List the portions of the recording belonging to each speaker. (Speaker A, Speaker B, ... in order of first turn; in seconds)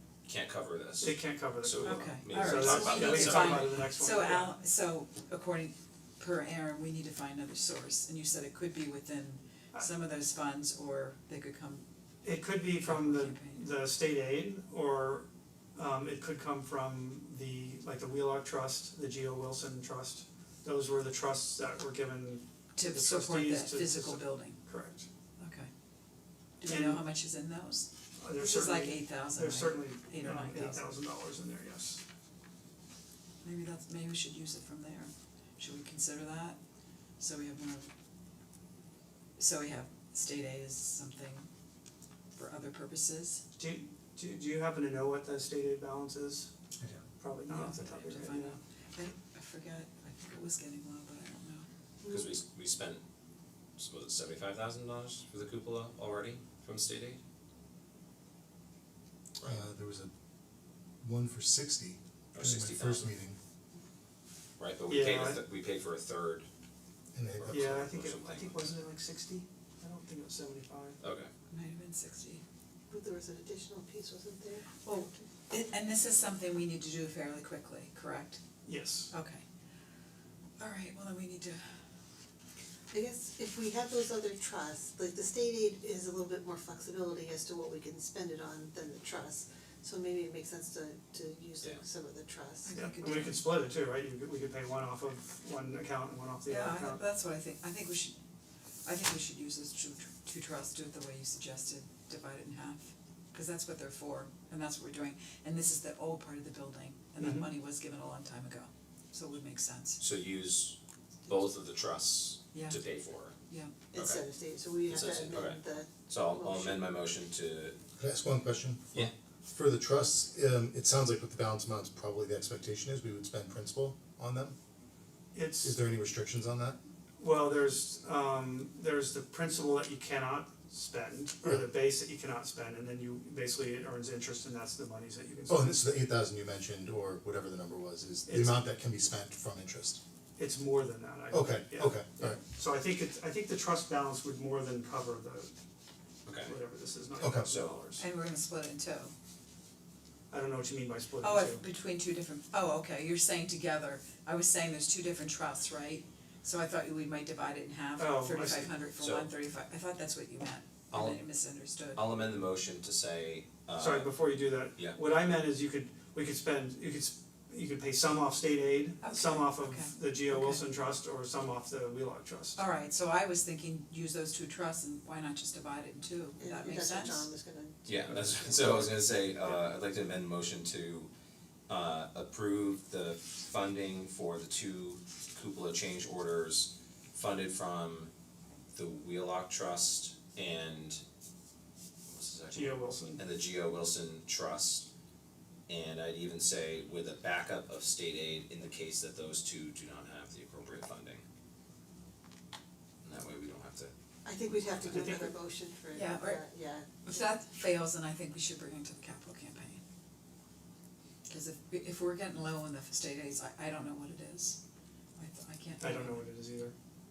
Speaker A: 0.3-3.8, 52.1-53.0, 53.8-57.2, 62.3-63.1, 64.6-66.5, 67.4-68.7, 71.0-71.3, 110.0-110.8, 111.3-113.3, 113.9-114.2, 114.9-117.8, 146.3-146.6, 147.5-147.8, 159.0-159.3, 160.9-161.2, 161.9-164.2, 177.9-181.1, 181.7-188.1, 188.8-191.0, 192.1-194.9, 195.7-201.2, 203.0-203.9
Speaker B: 1.0-4.5, 12.2-25.1, 26.7-27.1, 28.2-32.0, 43.6-46.5, 47.2-48.6, 64.9-65.5, 67.5-71.0, 78.6-79.1, 92.7-97.0, 107.2-107.5, 125.3-125.8, 127.2-135.8, 138.3-138.6, 140.4-145.5, 146.4-148.0, 150.3-151.6, 158.0-158.7, 163.8-172.6, 192.5-193.2, 204.8-205.4, 215.8-216.7
Speaker C: 1.8-11.8, 12.8-13.6, 22.8-24.6, 25.4-25.7, 26.6-30.8, 33.4-36.6, 37.2-37.9, 39.4-41.5, 42.3-43.4, 47.5-51.7, 71.5-72.4, 74.8-78.4, 79.1-79.4, 80.6-81.6, 92.7-93.4, 96.5-98.2, 98.8-110.0, 112.5-112.8, 148.0-149.1, 151.2-162.1, 169.0-170.7, 172.6-177.3, 205.9-206.4, 207.0-209.8, 211.3-214.6, 215.2-216.3
Speaker D: 52.0-52.4, 72.9-75.2, 82.9-92.7, 113.9-116.9, 176.4-178.9, 204.2-207.2
Speaker E: 59.4-60.1, 61.0-63.4, 67.1-67.7, 118.0-124.5, 125.6-126.8, 135.5-140.0, 141.3-142.4, 147.2-147.5